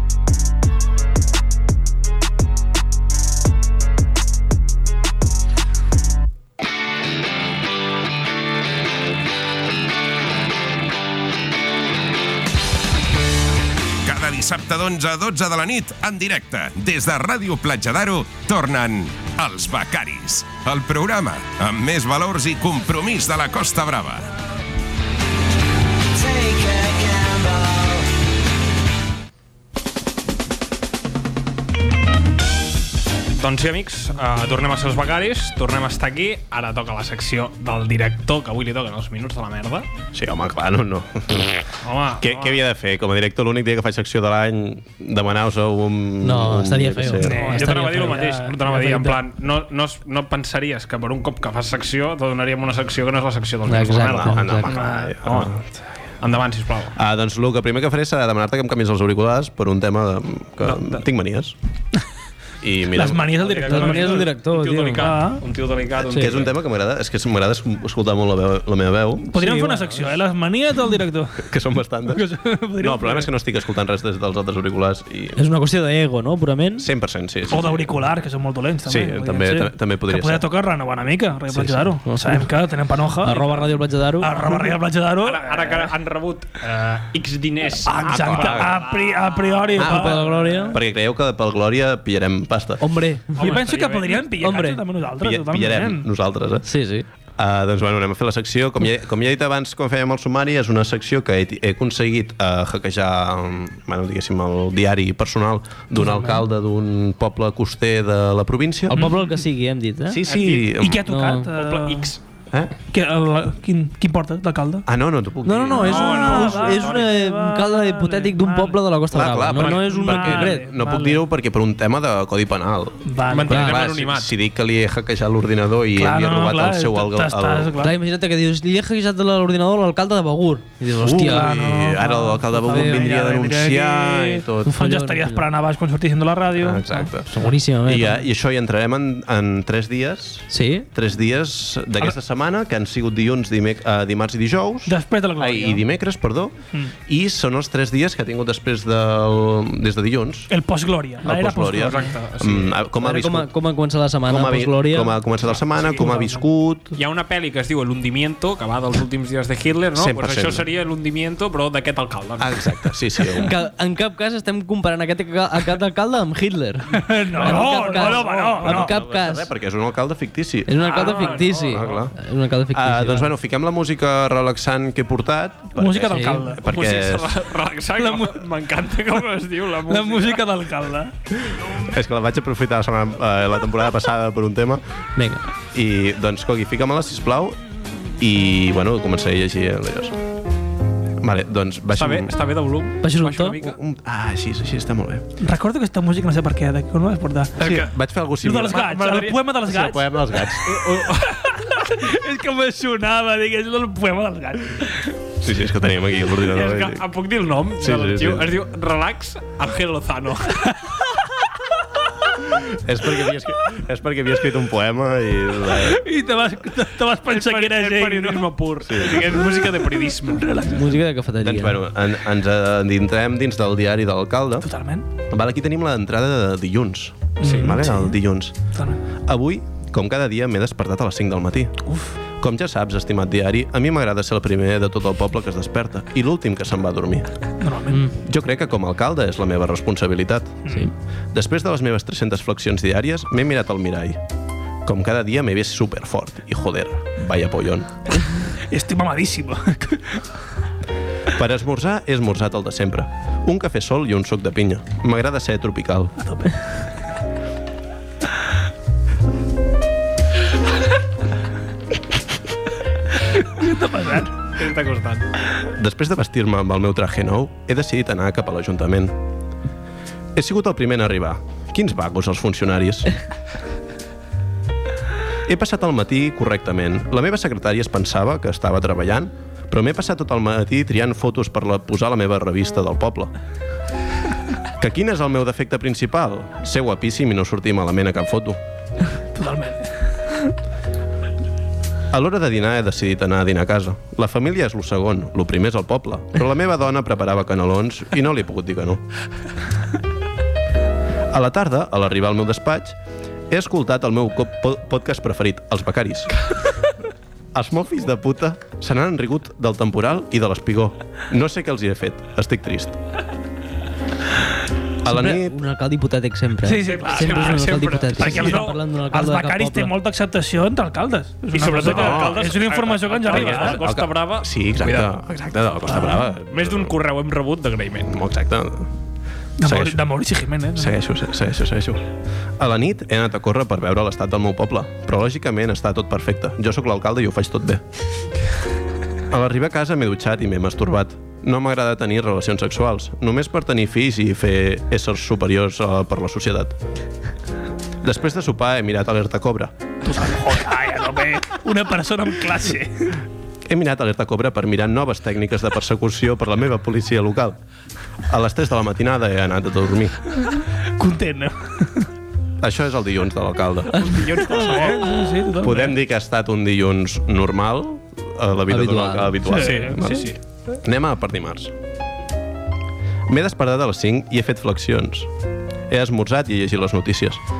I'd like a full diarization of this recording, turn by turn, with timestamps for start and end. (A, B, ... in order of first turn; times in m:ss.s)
0:14.0-0:24.3 A
0:33.4-0:39.9 B
0:40.1-0:41.7 C
0:41.8-0:42.6 B
0:42.2-0:47.5 C
0:46.2-0:49.2 D
0:47.2-0:49.0 E
0:47.3-0:54.7 B
0:53.7-0:54.7 D
0:54.0-0:55.6 C
0:54.7-0:55.2 E
0:56.2-0:57.0 B
0:57.0-1:01.5 C
1:00.6-1:01.0 B
1:02.6-1:03.4 C
1:02.9-1:04.3 E
1:03.4-1:06.5 B
1:03.7-1:05.1 D
1:05.0-1:05.4 E
1:06.0-1:09.3 C
1:09.3-1:11.5 E
1:09.3-1:10.1 D
1:11.4-1:12.2 C
1:12.1-1:13.3 E
1:12.8-1:15.4 C
1:15.4-1:16.9 D
1:16.8-1:18.0 C
1:17.5-1:25.9 E
1:18.8-1:20.5 C
1:21.5-1:22.0 C
1:22.0-1:22.5 D
1:23.2-1:24.5 D
1:25.2-1:30.1 B
1:27.8-1:30.8 E
1:27.9-1:28.8 C
1:29.8-1:32.8 C
1:29.8-1:30.8 D
1:32.8-1:33.3 D
1:33.4-1:34.6 B
1:33.4-1:36.1 E
1:34.4-1:34.8 D
1:35.2-1:36.7 C
1:36.6-1:37.0 D
1:37.4-1:49.1 C
1:48.9-1:50.2 D
1:50.1-1:51.0 C
1:50.2-1:50.7 B
1:50.7-1:52.1 E
1:51.1-1:51.5 D
1:51.5-1:52.2 B
1:52.9-1:54.8 E
1:54.8-1:56.3 C
1:55.4-2:00.6 D
1:55.8-1:58.8 E
1:55.8-1:57.1 B
1:59.1-2:07.9 C
1:59.6-1:59.9 B
1:59.7-2:01.2 E
2:03.1-2:03.6 E
2:03.3-2:04.3 B
2:06.0-2:07.9 E
2:07.8-2:11.9 D
2:11.0-2:14.8 C
2:11.0-2:17.0 E
2:12.6-2:13.1 D
2:14.6-2:15.4 D
2:16.6-2:17.3 C
2:17.2-2:18.2 D
2:17.8-2:26.6 C
2:20.5-2:20.9 D
2:24.8-2:25.8 E
2:27.1-2:30.5 C
2:30.5-2:32.1 E
2:31.2-2:33.5 C
2:31.8-2:32.8 B
2:33.0-2:35.2 D
2:34.3-2:37.0 C
2:35.8-2:36.4 E
2:36.9-2:42.7 B
2:39.9-2:40.6 C
2:42.4-2:43.5 C
2:43.4-2:49.5 D
2:46.9-2:48.9 E
2:47.3-2:48.9 B
2:48.7-2:52.1 C
2:50.7-2:53.3 D
2:50.9-2:51.6 E
2:50.9-2:52.0 B
2:52.7-2:57.4 C
2:55.8-2:56.6 E
2:56.1-2:56.5 D
2:56.6-3:00.4 B
2:58.0-2:58.4 E
2:59.9-3:01.1 E
3:01.6-3:04.8 C
3:05.2-3:05.4 D
3:05.7-3:07.6 C
3:08.2-3:10.2 C
3:11.2-3:12.3 C
3:11.9-3:13.8 B
3:13.0-3:13.5 D
3:13.6-3:15.3 C
3:15.4-3:17.5 E
3:17.6-3:17.9 B
3:17.6-3:18.8 C
3:18.4-3:20.0 E
3:18.7-3:19.5 B
3:19.6-3:20.7 C
3:20.6-3:21.4 B
3:21.3-3:25.0 E
3:25.4-3:27.0 C
3:26.4-3:30.7 B
3:27.8-3:28.5 C
3:32.6-3:36.0 C
3:35.8-3:41.0 E
3:37.2-3:40.6 B
3:38.8-3:39.3 C
3:40.7-3:41.8 D
3:41.4-3:44.7 C
3:44.6-3:45.0 E
3:45.3-3:48.6 C
3:47.4-3:48.2 E
3:49.3-3:51.8 C
3:52.4-3:57.3 C
3:57.6-3:58.0 E
3:58.2-4:00.7 C
4:01.3-4:04.2 C
4:04.8-4:08.0 C
4:08.7-4:10.2 E
4:11.3-4:16.1 C
4:16.2-4:16.6 E
4:23.5-4:24.5 E
4:24.6-4:25.2 B
4:25.7-4:29.1 C
4:30.3-4:33.1 C
4:35.4-4:43.3 C
4:44.8-4:48.6 C
4:49.3-4:49.9 E
4:52.1-4:59.0 C
5:01.3-5:03.0 C
5:03.5-5:06.4 C
5:07.5-5:13.0 C
5:15.0-5:15.6 C
5:15.1-5:19.9 D
5:16.6-5:23.8 E
5:16.8-5:18.7 B
5:21.5-5:25.2 B
5:21.8-5:22.6 C
5:23.3-5:27.0 C
5:25.9-5:26.2 E
5:26.5-5:28.2 B
5:28.0-5:28.9 C
5:29.6-5:31.0 E
5:29.6-5:30.0 C
5:30.7-5:32.0 C
5:32.6-5:37.8 C
5:39.3-5:46.8 C
5:48.0-5:49.7 C
5:50.0-5:53.2 E
5:53.6-5:57.6 C
5:58.3-6:00.2 C
6:01.0-6:02.1 E
6:02.6-6:04.2 C
6:03.9-6:05.2 B
6:04.4-6:05.9 E
6:05.6-6:11.7 C
6:08.7-6:09.4 D
6:09.5-6:10.1 E
6:09.6-6:10.4 B
6:13.3-6:15.3 C
6:15.9-6:17.4 C